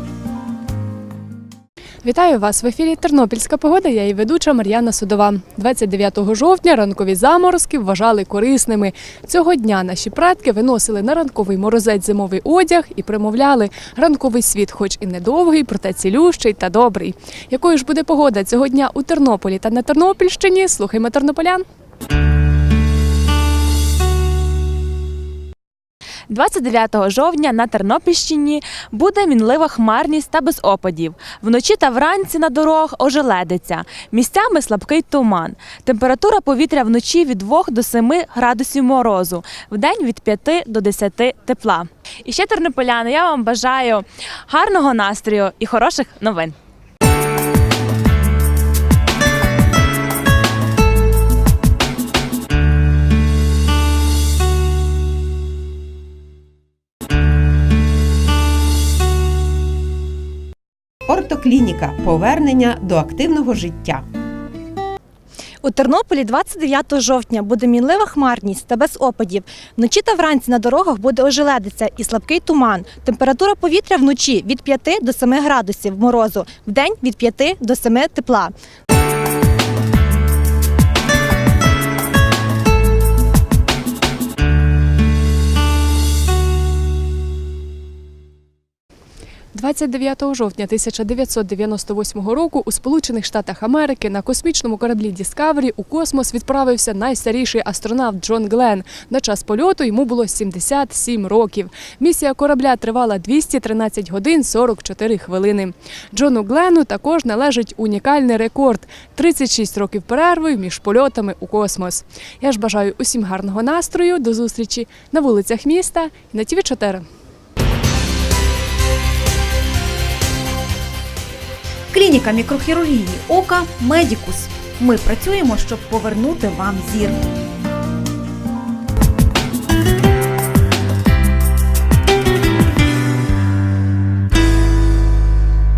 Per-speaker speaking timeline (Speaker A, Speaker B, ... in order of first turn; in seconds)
Speaker A: 2.0-21.6, 89.5-117.0
Speaker B: 26.3-46.5
Speaker C: 61.1-64.0
Speaker D: 65.6-78.5
Speaker E: 121.9-127.2